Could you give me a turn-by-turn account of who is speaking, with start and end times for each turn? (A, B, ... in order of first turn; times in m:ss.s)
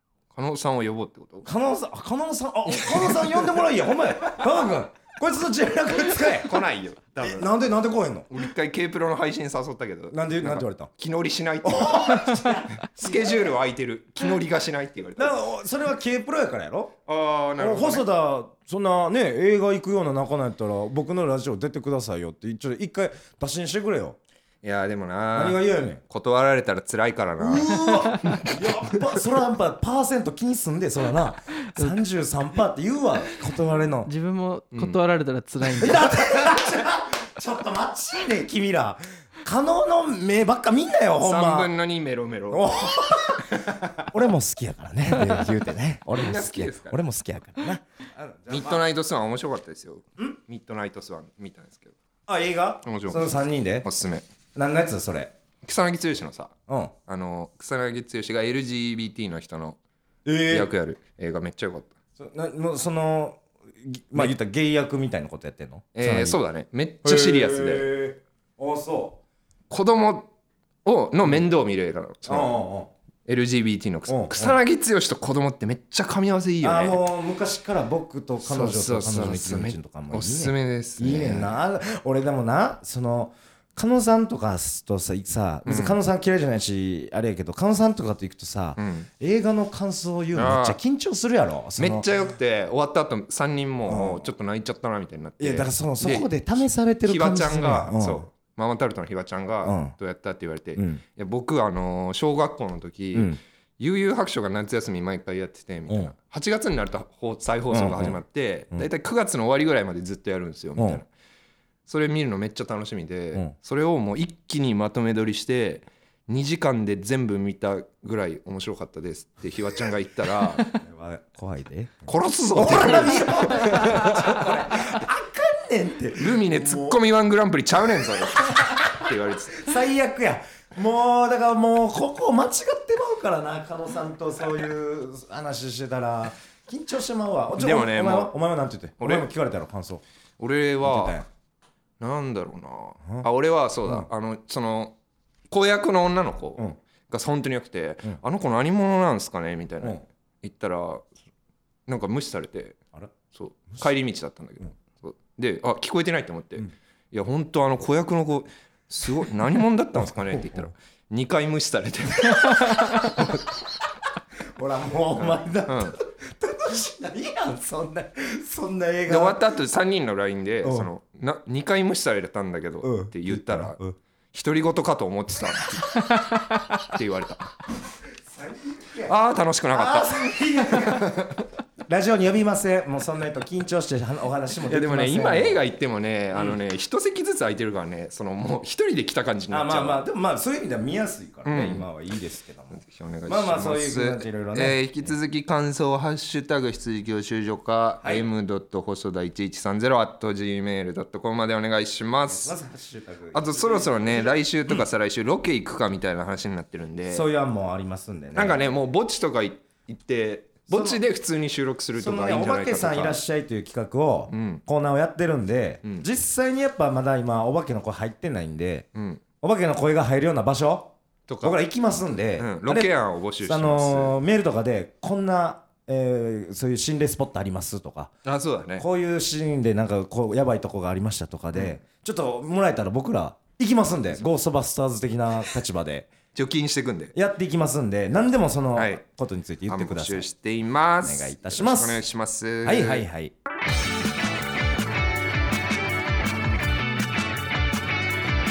0:00.3-0:01.5 A
0:01.4-0:06.6 B
0:02.7-0:03.6 A
0:06.2-0:07.5 A
0:07.2-0:08.3 B
0:08.3-0:15.4 A
0:10.1-0:10.9 B
0:11.6-0:13.6 B
0:15.2-0:16.9 B
0:17.1-0:18.0 A
0:17.6-0:24.2 B
0:24.6-0:29.0 A
0:25.3-0:26.0 B
0:27.4-0:34.1 B
0:34.0-0:36.5 C
0:34.7-0:35.0 A
0:35.7-0:41.7 B
0:41.2-0:44.1 A
0:42.5-0:48.8 B
0:46.1-0:47.0 A
0:48.5-0:51.9 A
0:52.3-0:53.8 B
0:52.8-0:53.3 A
0:53.8-0:54.2 A
0:54.5-0:55.3 B
0:55.6-0:56.5 A
0:56.7-0:56.9 B
0:57.1-0:59.8 A
1:00.2-1:00.7 B
1:00.5-1:01.9 A
1:02.2-1:06.4 B
1:05.9-1:07.9 A
1:07.0-1:09.2 B
1:09.7-1:10.3 A
1:10.8-1:12.6 A
1:12.2-1:12.9 B
1:13.2-1:17.0 A
1:14.1-1:14.6 B
1:16.6-1:32.1 B
1:18.4-1:21.5 A
1:25.6-1:26.0 A
1:28.8-1:29.1 A
1:30.3-1:30.8 A
1:31.8-1:36.3 A
1:33.9-1:34.2 B
1:35.4-1:38.3 B
1:37.0-1:51.1 A
1:39.6-1:39.9 B
1:40.8-1:41.0 B
1:43.1-1:43.4 B
1:45.9-1:46.1 B
1:47.7-1:48.2 B
1:50.8-1:51.0 B
1:51.9-2:00.6 A
2:00.6-2:07.0 B
2:02.1-2:04.5 A
2:06.2-2:09.7 A
2:09.6-2:20.0 B
2:17.6-2:18.3 A
2:19.0-2:19.3 A
2:20.4-2:21.2 A
2:20.8-2:21.3 B
2:22.0-2:25.0 A
2:25.5-2:31.0 A
2:31.9-2:43.4 A
2:39.9-2:40.7 B
2:42.4-2:43.4 B
2:44.6-2:49.4 B
2:45.1-2:46.0 A
2:49.1-2:53.8 A
2:50.6-2:50.9 B
2:52.8-2:54.0 B
2:54.3-2:57.5 A
2:58.3-2:59.1 B
2:59.0-3:01.4 A
2:59.7-3:01.2 B
3:01.9-3:05.6 B
3:04.7-3:10.0 A
3:09.5-3:15.1 B
3:11.4-3:11.8 A
3:12.7-3:22.5 A
3:22.2-3:24.8 B
3:23.3-3:27.2 A
3:27.1-3:28.6 B
3:28.3-3:33.2 A
3:30.7-3:31.0 B
3:32.0-3:38.9 B
3:34.3-3:34.6 A
3:38.9-3:39.2 A
3:39.4-3:42.9 B
3:41.3-3:41.6 A
3:42.4-3:44.1 A
3:43.4-3:48.1 B
3:48.2-3:48.8 A
3:48.8-3:56.1 B
3:56.3-3:57.1 A
3:57.1-4:00.3 B
3:58.7-3:59.0 A
3:59.7-4:03.0 A
4:01.0-4:02.0 B
4:02.6-4:03.3 B